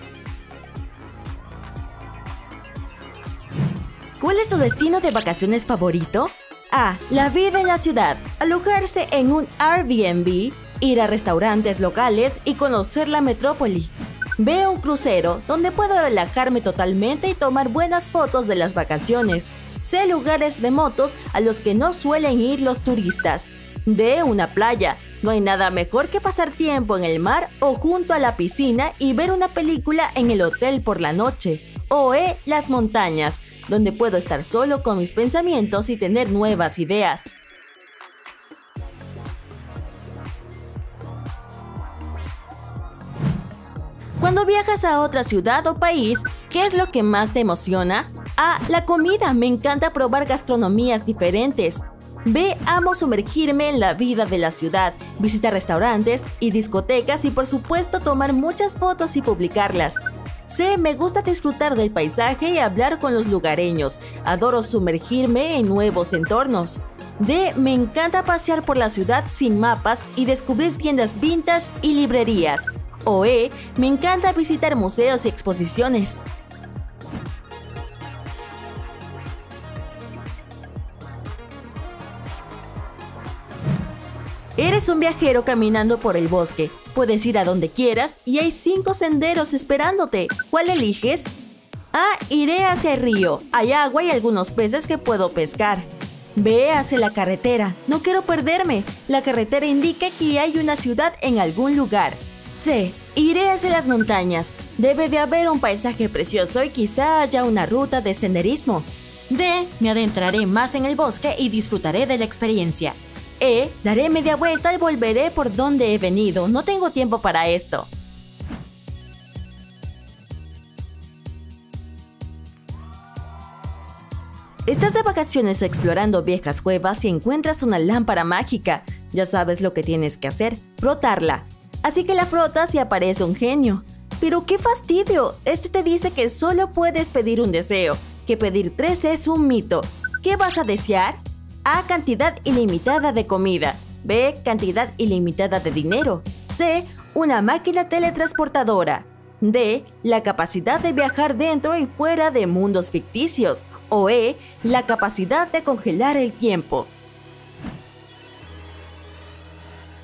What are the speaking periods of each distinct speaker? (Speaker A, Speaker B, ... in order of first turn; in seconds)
Speaker A: 4.2-37.3, 44.2-76.2, 84.6-91.4, 91.9-117.9, 124.7-156.9